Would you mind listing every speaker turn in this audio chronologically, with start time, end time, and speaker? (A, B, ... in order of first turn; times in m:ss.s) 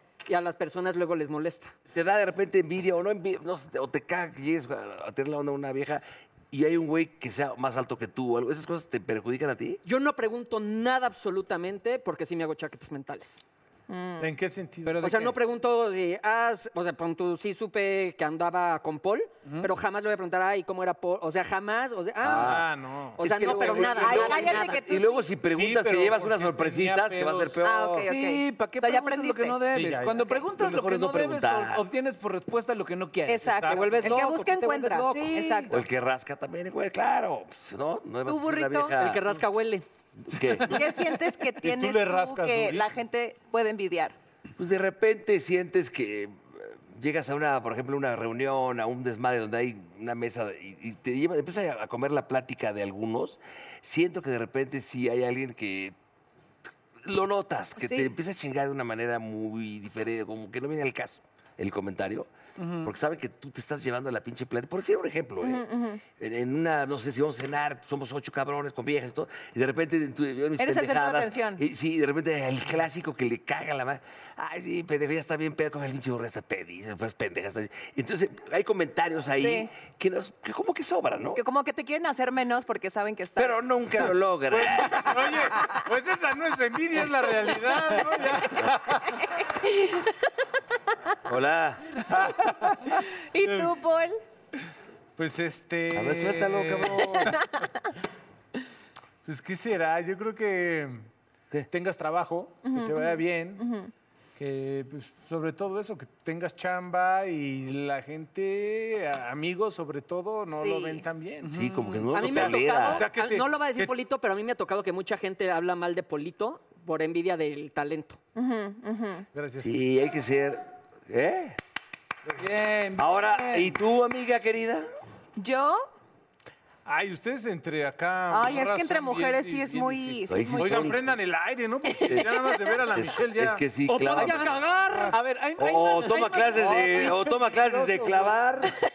0:00.3-0:01.7 A
0:01.9-0:09.8 B
0:09.8-0:13.4 A
0:13.9-0:14.3 C
0:14.2-0:15.1 D
0:14.8-0:15.4 E
0:15.0-0:22.6 A
0:22.2-0:22.7 B
0:22.3-0:24.8 D
0:23.2-0:24.8 A
0:23.2-0:24.5 E
0:23.9-0:25.2 C
0:24.1-0:28.1 B
0:25.5-0:27.6 D
0:27.6-0:29.6 C
0:28.0-0:34.1 E
0:29.7-0:30.3 D
0:30.6-0:31.8 B
0:33.2-0:35.8 C
0:33.4-0:34.1 D
0:33.7-0:35.6 A
0:35.1-0:35.7 E
0:35.7-0:39.2 B
0:38.2-0:39.0 C
0:39.0-0:39.8 A
0:40.3-0:40.9 B
0:40.6-0:44.2 C
0:41.6-0:42.9 D
0:44.6-0:55.9 B
0:57.0-1:21.4 B
0:57.8-0:58.1 C
1:02.6-1:02.9 E
1:05.4-1:06.0 C
1:10.6-1:11.6 C
1:19.4-1:19.7 C
1:21.3-1:23.7 C
1:23.4-1:25.2 B
1:24.5-1:29.2 D
1:29.0-1:30.1 C
1:31.2-1:31.9 B
1:32.1-1:33.7 D
1:32.9-1:34.2 C
1:35.2-1:37.5 D
1:35.9-1:37.4 B
1:37.4-1:37.7 C
1:39.2-1:41.1 D
1:41.7-1:43.6 D
1:42.6-1:43.9 C
1:44.4-1:51.6 D
1:50.5-1:51.0 C
1:51.4-1:52.1 E
1:51.5-1:53.1 B
1:52.1-1:58.2 A
1:52.1-1:53.9 D
1:58.4-1:59.3 C
1:59.3-1:59.8 D
1:59.6-2:01.6 B
2:02.4-2:03.7 E
2:03.0-2:04.8 B
2:05.4-2:05.9 C
2:06.8-2:13.6 D
2:08.3-2:10.9 C
2:10.3-2:11.0 B
2:12.0-2:12.5 C
2:12.9-2:14.6 B
2:13.9-2:15.2 A
2:14.2-2:14.5 E
2:15.1-2:18.3 E
2:15.6-2:18.7 B